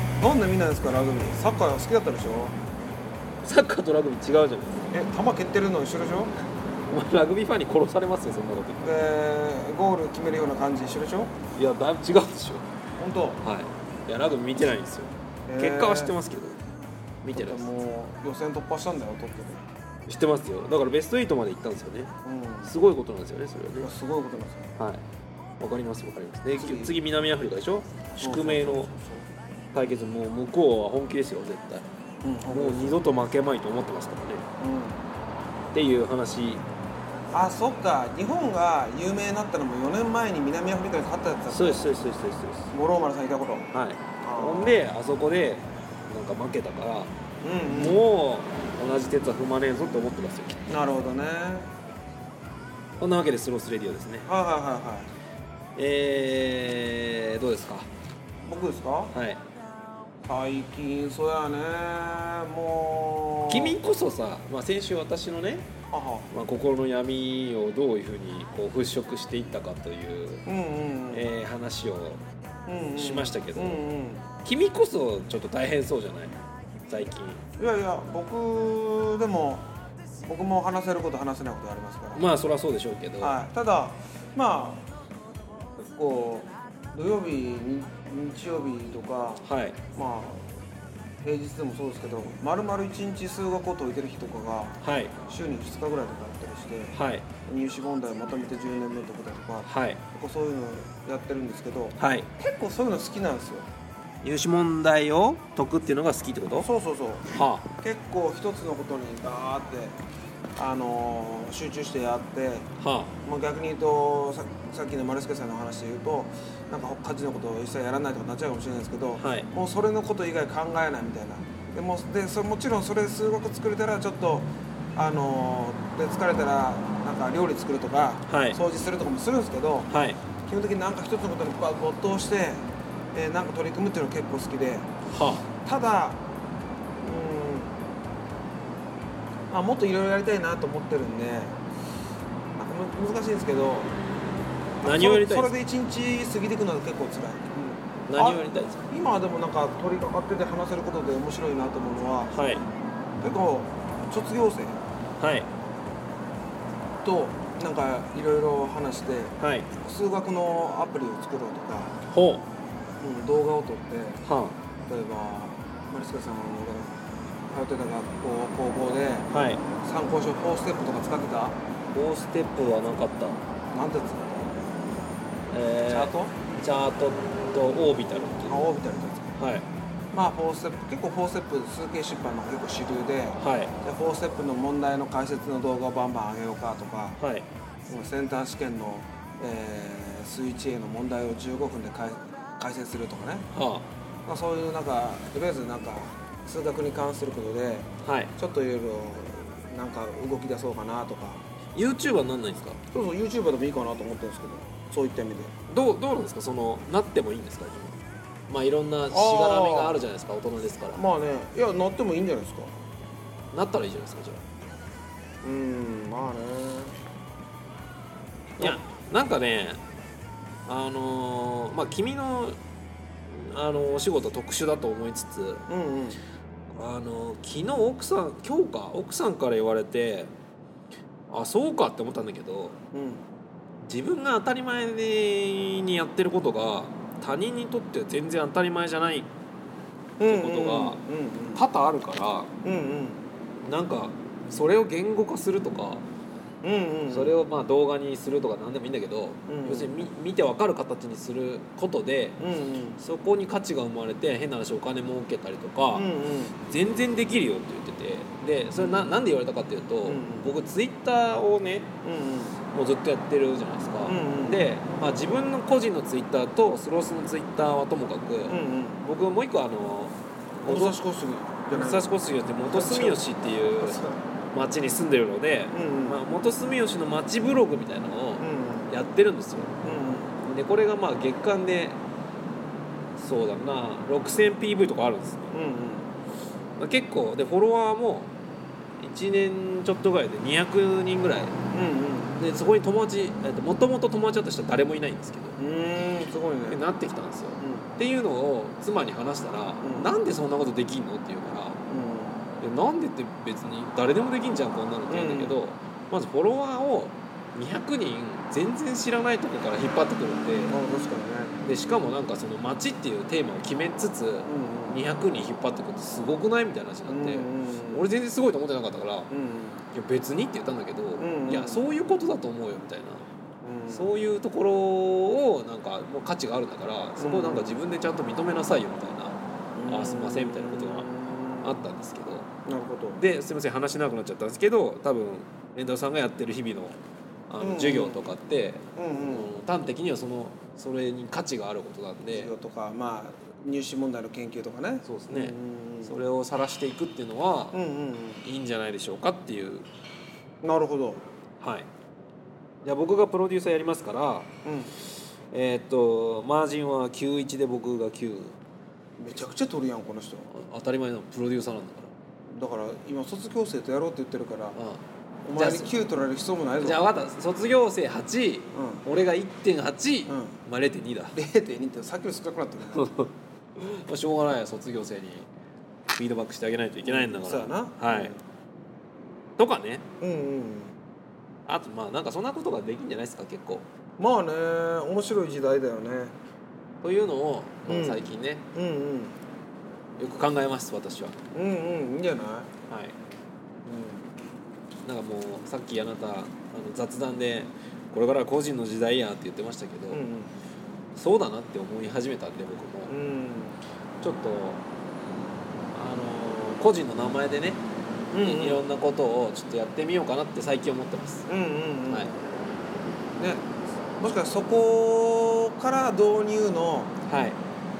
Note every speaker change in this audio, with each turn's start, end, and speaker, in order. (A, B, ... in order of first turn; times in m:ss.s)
0:00.2-0:02.5 A
0:03.4-0:04.8 B
0:04.9-0:06.3 A
0:06.9-0:08.9 B
0:08.8-0:11.3 A
0:11.6-0:12.6 B
0:13.0-0:13.4 A
0:13.4-0:16.6 B
0:15.5-0:16.2 A
0:17.2-0:17.7 B
0:17.3-0:19.6 A
0:20.1-0:22.1 B
0:22.2-0:22.7 A
0:22.6-0:23.9 B
0:23.8-0:24.7 A
0:24.8-0:25.0 B
0:25.6-0:28.9 B
0:26.5-0:27.0 A
0:28.1-0:29.3 A
0:29.7-0:31.8 B
0:32.2-0:33.0 A
0:32.5-0:34.4 B
0:34.6-0:35.0 A
0:35.7-0:36.6 B
0:37.3-0:42.0 A
0:41.5-0:42.7 B
0:42.7-0:43.7 A
0:43.7-0:47.1 B
0:44.2-0:44.8 A
0:47.4-0:48.0 A
0:47.7-0:50.6 B
0:50.7-0:51.7 A
0:53.0-0:54.3 B
0:54.2-0:55.1 A
0:55.8-0:57.9 B
0:58.4-0:59.1 A
0:59.1-0:59.4 B
1:00.2-1:03.8 A
1:03.5-1:05.7 B
1:05.9-1:06.3 A
1:06.3-1:10.4 B
1:10.4-1:11.3 A
1:11.1-1:12.2 B
1:12.7-1:14.2 A
1:12.9-1:13.8 B
1:14.4-1:16.3 B
1:16.9-1:17.4 B
1:17.6-1:19.6 A
1:20.3-1:22.2 A
1:22.1-1:23.4 B
1:23.2-1:24.8 A
1:25.8-1:30.5 A
1:29.4-1:29.8 B
1:31.2-1:34.8 A
1:34.8-1:35.1 B
1:35.3-1:43.6 A
1:36.9-1:37.3 B
1:39.6-1:40.0 B
1:42.0-1:42.3 B
1:44.2-1:46.7 B
1:46.5-1:50.0 A
1:47.3-1:47.7 B
1:50.6-1:52.7 A
1:52.8-1:53.1 B
1:53.2-2:09.9 A
1:59.2-1:59.5 B
2:08.3-2:08.6 B
2:09.9-2:10.2 B
2:10.4-2:14.9 A
2:15.1-2:15.4 B
2:15.6-2:16.2 A
2:17.0-2:17.8 A
2:19.5-2:21.6 A
2:22.6-2:23.9 A
2:24.8-2:32.6 A
2:24.8-2:25.5 B
2:28.1-2:28.8 B
2:32.3-2:32.6 B
2:33.2-2:34.8 A
2:35.2-2:35.5 B
2:37.0-2:42.0 A
2:39.4-2:39.7 B
2:42.1-2:42.4 B
2:43.0-2:44.2 A
2:44.2-2:44.6 B
2:44.9-2:47.0 A
2:47.5-2:49.3 A
2:49.3-2:49.6 B
2:49.8-2:51.6 A
2:51.9-2:53.4 B
2:53.7-2:54.5 A
2:55.5-2:58.6 B
2:55.8-2:56.4 A
2:58.5-2:59.3 A
2:59.4-2:59.6 B
3:00.1-3:07.2 A
3:03.4-3:03.7 B
3:07.2-3:07.4 B
3:07.9-3:13.5 A
3:13.5-3:13.9 B
3:14.2-3:21.4 A
3:18.0-3:18.3 B
3:21.7-3:22.8 B
3:22.9-3:25.5 A
3:25.7-3:31.0 B
3:29.1-3:30.0 A
3:30.9-3:32.7 A
3:33.5-3:34.4 B
3:35.4-3:36.9 A
3:38.6-3:39.8 B
3:40.7-3:42.6 B
3:43.3-3:45.6 B
3:45.7-3:46.2 A
3:46.7-3:50.3 B
3:51.3-3:52.8 B
3:52.9-3:53.2 A
3:53.8-3:59.3 B
4:00.2-4:01.6 A
4:00.2-4:01.0 B
4:01.5-4:02.5 B
4:02.6-4:03.2 A
4:03.6-4:06.0 B
4:06.6-4:07.3 A
4:07.1-4:12.4 B
4:09.5-4:10.0 A
4:12.4-4:13.0 A
4:13.0-4:21.9 B
4:15.9-4:16.6 A
4:18.8-4:19.2 A
4:20.0-4:20.5 A
4:22.0-4:22.6 A
4:22.7-4:31.0 B
4:24.0-4:24.6 A
4:28.5-4:29.0 A
4:30.7-4:32.1 A
4:31.7-4:34.0 B
4:32.7-4:33.2 A
4:33.8-4:34.2 A
4:34.5-4:39.7 B
4:35.7-4:36.2 A
4:38.4-4:39.0 A
4:39.8-4:40.3 A
4:40.4-4:42.0 B
4:43.2-4:45.6 B
4:45.5-4:46.1 A
4:46.8-4:48.3 B
4:49.0-4:51.5 B
4:51.7-4:52.4 A
4:52.3-4:55.6 B
4:55.6-4:56.8 A
4:56.7-5:01.8 B
4:57.6-4:57.9 A
4:59.8-5:00.1 A
5:01.9-5:02.4 A
5:02.6-5:10.8 B
5:05.1-5:05.6 A
5:10.7-5:11.6 A
5:11.6-5:19.3 B
5:14.4-5:15.0 A
5:17.0-5:18.1 A
5:19.3-5:19.8 A
5:19.9-5:23.2 B
5:21.2-5:21.8 A
5:23.6-5:24.2 A
5:23.9-5:31.1 B
5:27.2-5:27.8 A
5:29.8-5:31.8 A
5:31.6-5:32.5 B
5:32.6-5:33.2 A
5:33.2-5:37.0 B
5:37.5-5:42.5 B
5:37.6-5:38.3 A
5:39.0-5:39.5 A
5:42.3-5:46.2 A
5:45.0-5:47.8 B
5:47.7-5:48.4 A
5:48.4-5:49.9 B
5:50.6-5:51.2 A
5:51.6-5:51.9 B
5:52.8-5:54.5 B
5:54.6-5:54.9 A
5:55.5-5:58.6 B
5:59.2-6:00.5 A
6:00.5-6:02.1 B
6:02.5-6:04.8 A
6:04.7-6:05.0 B
6:05.4-6:07.0 A
6:05.5-6:05.9 B
6:06.8-6:11.4 B
6:08.7-6:09.0 A
6:10.3-6:10.6 A
6:11.3-6:13.1 A
6:12.9-6:15.5 B
6:16.1-6:18.3 B
6:17.0-6:18.4 A
6:19.6-6:20.0 B
6:20.2-6:21.0 A
6:21.7-6:23.8 B
6:24.2-6:26.3 A
6:27.0-6:28.6 B
6:27.9-6:29.4 A
6:30.2-6:31.4 B
6:31.5-6:32.7 A
6:32.9-6:33.2 B
6:33.8-6:34.3 A
6:35.0-6:40.2 B
6:40.1-6:40.5 A
6:41.2-6:43.1 B
6:43.1-6:43.8 A
6:44.2-6:44.8 B
6:45.9-6:47.8 B
6:48.3-6:48.8 A
6:48.4-6:51.5 B
6:51.5-6:52.4 A
6:52.1-6:52.3 B
6:53.4-6:57.1 A
6:57.3-6:57.6 B